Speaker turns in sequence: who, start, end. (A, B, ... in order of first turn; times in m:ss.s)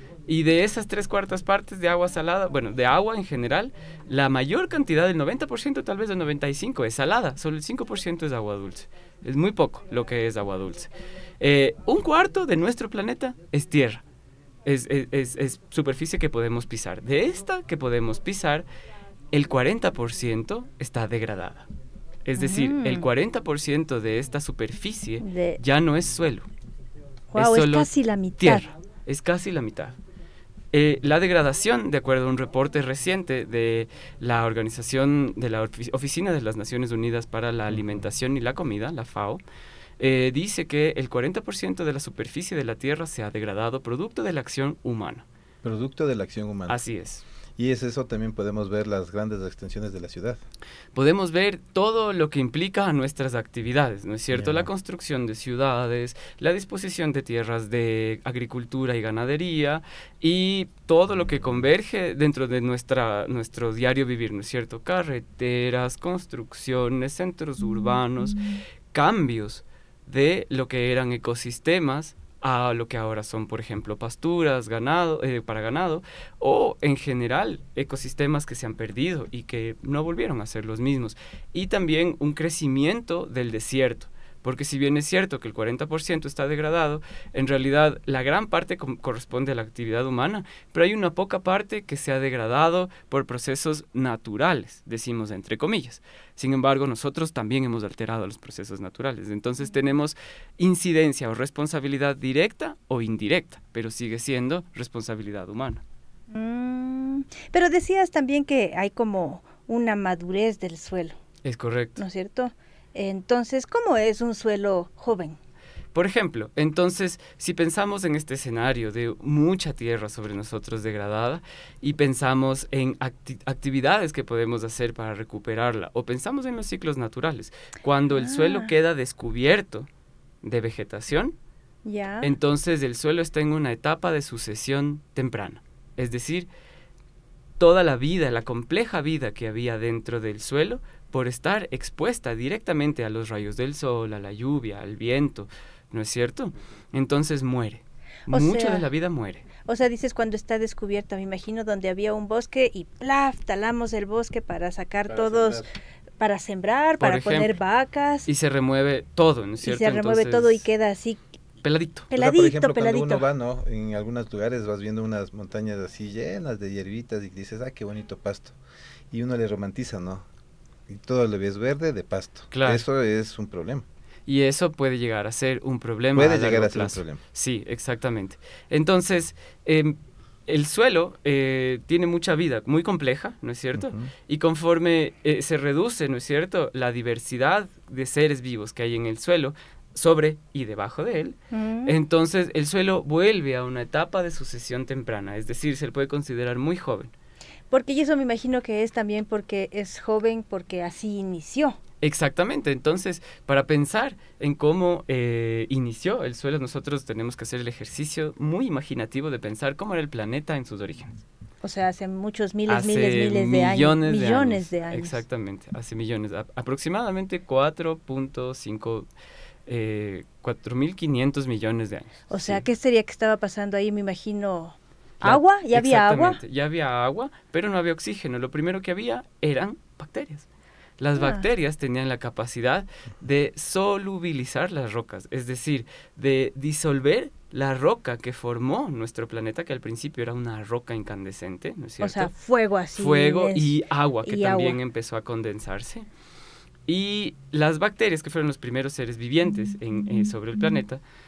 0:00.3-0:14.0 A
0:14.6-0:18.7 A
0:19.3-0:21.7 A
0:22.2-0:26.5 A
0:22.4-0:23.1 B
0:25.2-0:25.6 B
0:27.3-0:28.7 B
0:27.3-0:30.0 A
0:30.7-0:39.4 A
0:40.0-0:45.2 A
0:45.6-0:46.8 C
0:46.7-0:47.2 A
0:47.6-0:50.4 C
0:50.9-1:08.4 A
0:54.3-0:54.7 C
1:08.9-1:45.8 A
1:46.3-1:51.2 B
1:51.4-1:52.0 A
1:52.0-1:55.4 B
1:55.9-2:09.9 A
2:08.1-2:08.7 B
2:10.4-2:11.4 A
2:11.8-2:12.3 B
2:12.2-2:16.5 A
2:17.6-2:29.4 A
2:28.3-2:28.9 B
2:29.6-2:35.6 B
2:35.1-2:35.7 C
2:36.2-2:38.3 B
2:37.0-2:37.5 A
2:38.2-2:40.6 A
2:39.6-2:41.2 B
2:41.6-2:42.1 A
2:42.1-2:43.3 B
2:42.1-2:48.6 C
2:49.1-2:50.2 C
2:50.9-2:53.8 C
2:52.5-2:52.8 A
2:54.3-3:00.0 A
2:56.1-2:57.2 C
3:00.5-3:17.1 A
3:03.8-3:04.1 C
3:11.5-3:12.0 B
3:17.7-3:21.8 B
3:22.0-3:31.2 A
3:31.6-3:35.2 B
3:32.7-3:39.1 A
3:39.7-3:42.6 A
3:42.3-3:46.4 B
3:45.2-3:50.4 A
3:51.0-4:02.3 A
3:51.2-3:51.4 B
4:02.0-4:04.8 B
4:02.9-4:06.0 A
4:06.9-4:11.0 A